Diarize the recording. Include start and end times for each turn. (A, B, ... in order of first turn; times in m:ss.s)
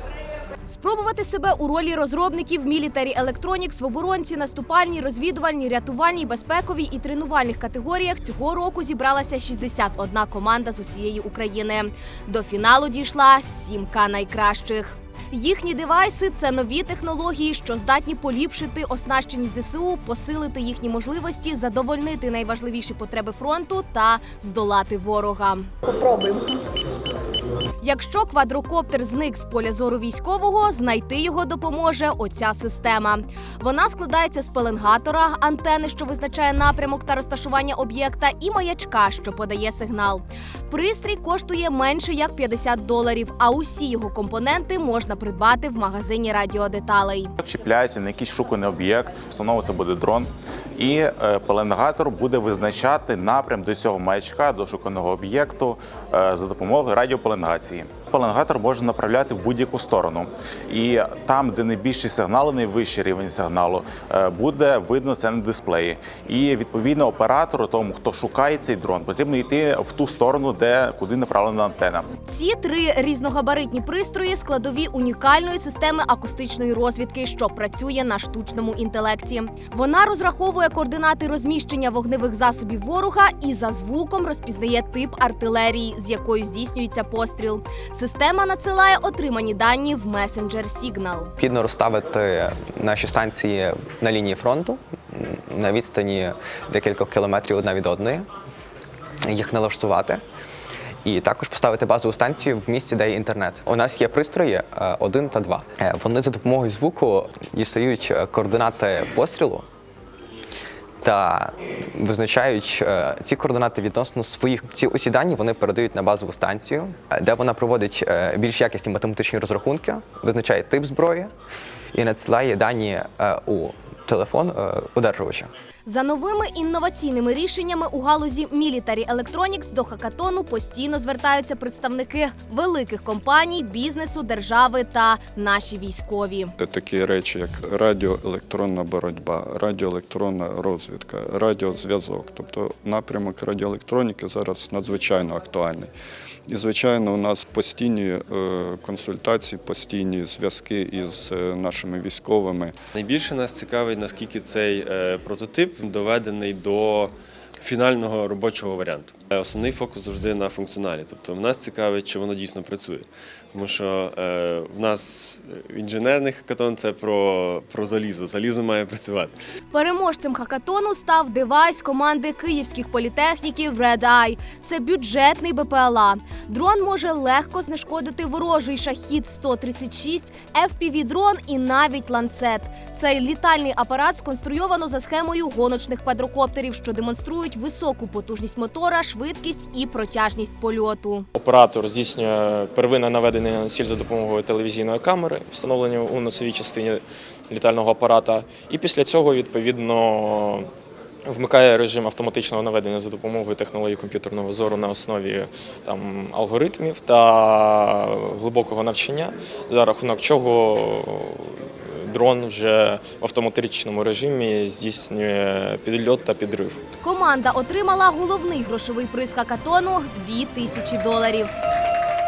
0:00.7-0:25.7 A
0:27.8-0:47.3 A
0:47.4-1:12.0 B
1:12.3-1:31.3 A
1:31.4-1:38.3 C
1:39.3-1:40.2 C
1:41.0-1:49.7 C
1:51.0-2:01.3 C
2:01.9-2:05.5 C
2:05.8-2:16.5 A
2:16.6-2:25.9 D
2:26.5-2:32.7 D
2:33.0-2:49.4 E
2:49.7-3:11.3 A
3:11.4-3:20.7 F
3:21.3-3:36.8 F
3:37.0-3:41.5 A